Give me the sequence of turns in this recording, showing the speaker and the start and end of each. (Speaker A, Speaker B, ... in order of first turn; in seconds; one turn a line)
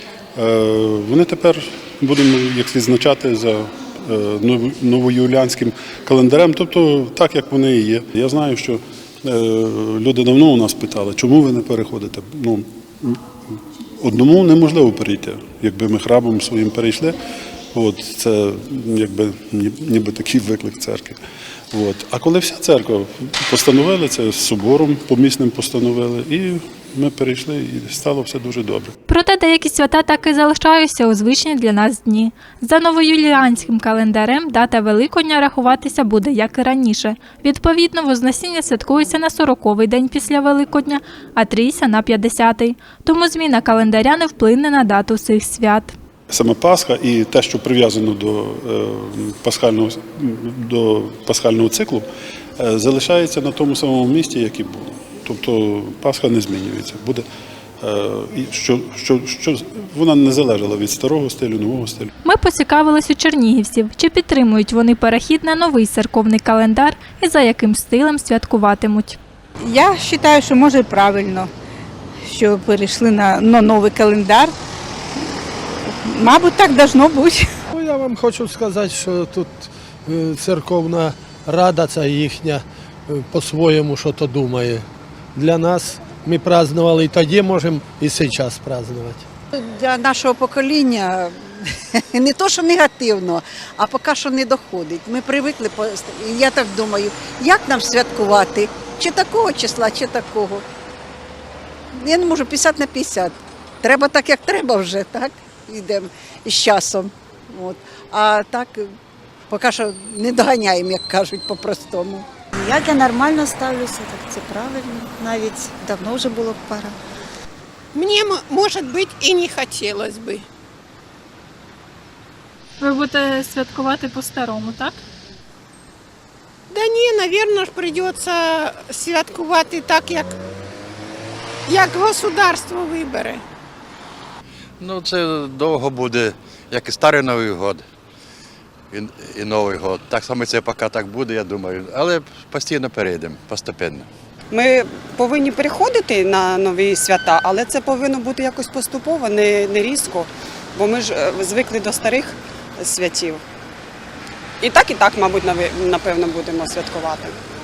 Speaker A: 0.3-13.2
Speaker A: 14.0-17.2
Speaker A: 17.7-21.2
Speaker A: 21.7-28.9
Speaker B: 29.1-45.9
Speaker A: 46.3-52.0
Speaker A: 52.6-57.2
Speaker A: 57.8-62.1
Speaker B: 62.2-69.2
Speaker C: 69.6-71.5
Speaker C: 72.2-74.5
Speaker C: 75.8-77.5
Speaker D: 77.7-89.2
Speaker E: 89.5-100.6
Speaker E: 102.0-108.9
Speaker E: 109.5-112.2
Speaker F: 112.5-117.0
Speaker G: 117.9-120.5
Speaker B: 122.8-125.0
Speaker G: 126.7-130.3
Speaker G: 131.7-133.4
Speaker H: 134.8-137.8
Speaker H: 138.9-144.1
Speaker I: 144.5-153.4
Speaker I: 154.6-157.3